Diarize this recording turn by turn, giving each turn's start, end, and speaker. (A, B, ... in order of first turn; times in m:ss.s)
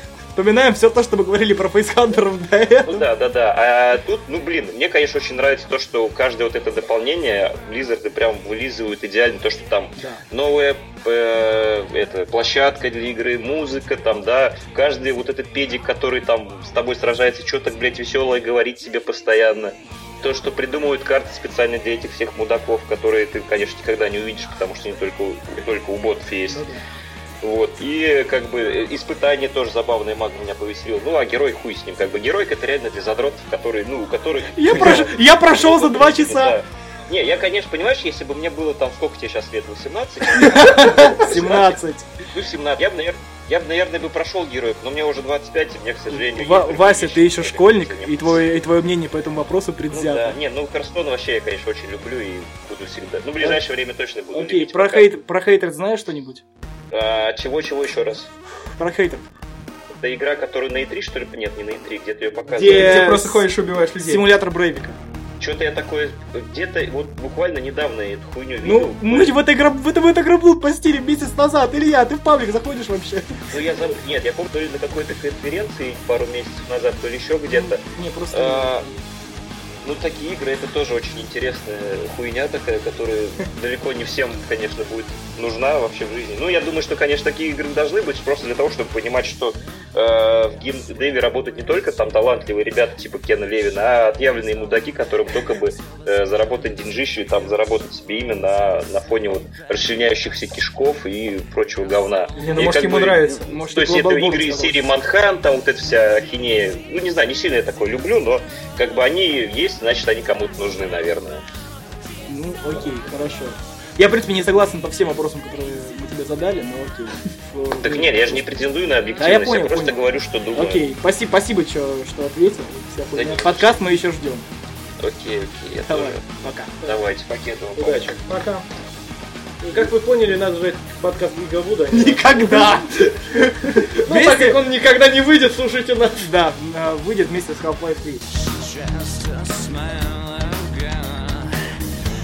0:00.4-0:03.1 A
0:02.9-0:26.6 B
0:26.5-0:26.8 A
0:27.4-0:41.8 B
0:34.5-0:36.6 A
0:40.3-0:42.1 A
0:42.3-0:48.4 B
0:46.1-0:50.4 A
0:49.9-0:55.1 B
0:54.3-0:56.4 A
0:56.9-0:58.3 B
0:58.8-0:59.2 A
0:59.9-1:03.0 B
1:02.5-1:03.4 A
1:02.6-1:04.2 C
1:04.0-1:05.0 A
1:05.4-1:09.3 B
1:08.6-1:13.4 A
1:13.5-1:17.8 B
1:17.5-1:19.0 A
1:18.3-1:18.8 B
1:19.8-1:51.4 B
1:42.4-1:43.5 C
1:43.4-1:44.8 A
1:52.3-1:58.5 A
1:57.8-2:00.9 B
1:59.2-2:00.0 A
2:00.5-2:04.5 A
2:03.1-2:03.7 B
2:05.0-2:06.2 B
2:05.8-2:06.8 A
2:06.8-2:08.1 B
2:07.8-2:08.2 D
2:08.3-2:08.6 C
2:09.6-2:12.8 D
2:11.9-2:14.6 A
2:13.9-2:16.3 D
2:16.2-2:18.2 A
2:18.6-2:21.6 E